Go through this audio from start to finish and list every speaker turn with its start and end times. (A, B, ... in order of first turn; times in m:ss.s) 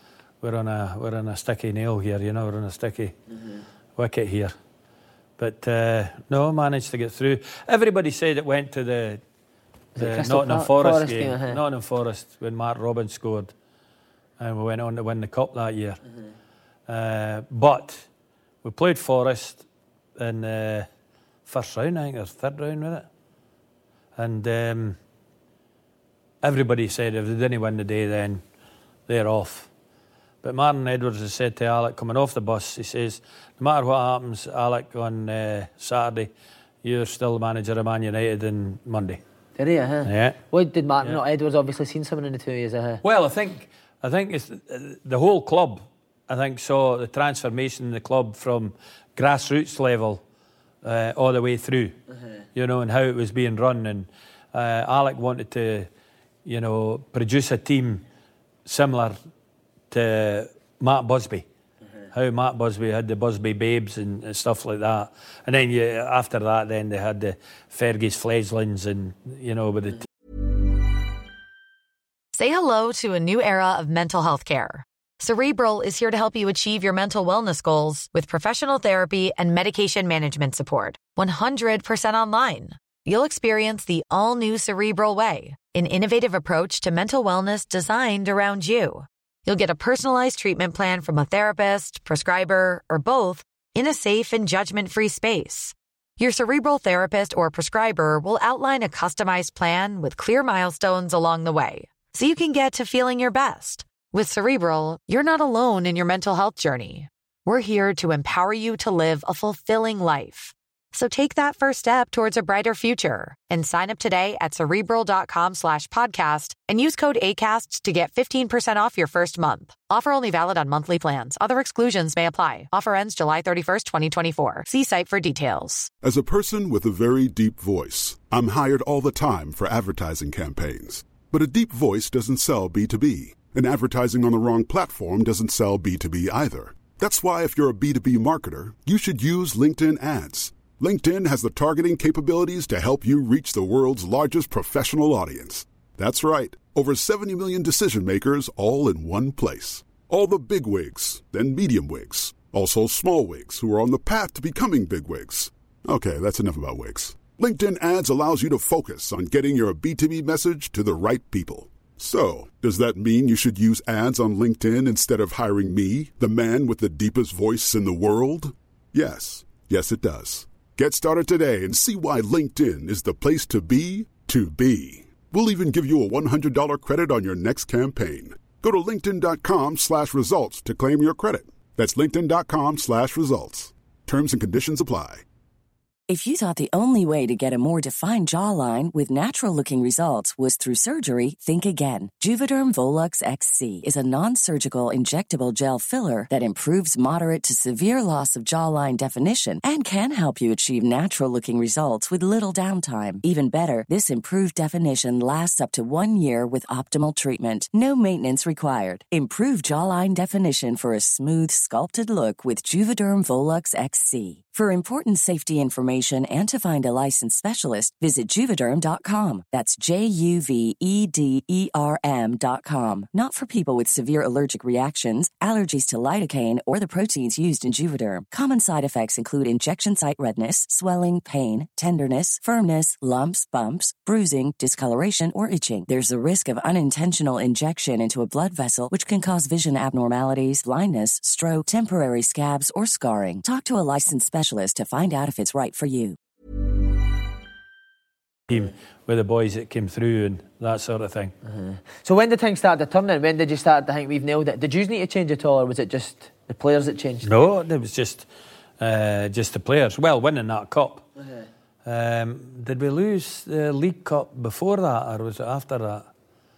0:00.4-0:03.2 A
0:04.0-0:04.6 A
0:05.4-0:09.2 A
0:10.0-0:11.6 B
0:10.0-0:13.5 A
0:14.4-0:16.0 A
0:16.9-0:18.1 A
0:18.6-0:19.6 A
0:20.2-0:20.9 A
0:21.5-0:23.1 A
0:24.2-0:25.0 A
0:26.4-0:28.4 A
0:29.1-0:29.7 A
0:30.4-0:36.3 A
0:36.8-0:39.2 A
0:39.6-0:43.0 B
0:40.0-0:40.4 A
0:43.0-0:50.2 A
0:50.8-0:52.0 A
0:52.6-0:55.9 A
0:56.4-0:58.0 A
0:58.6-0:59.2 A
0:59.9-1:01.5 A
1:02.1-1:10.0 A
1:12.3-2:05.9 C
2:06.0-3:05.2 D
3:06.1-4:06.2 E
4:08.5-4:11.3 A
4:11.4-4:17.3 B
4:17.2-4:18.3 A
4:18.8-4:21.1 A
4:21.8-4:26.1 A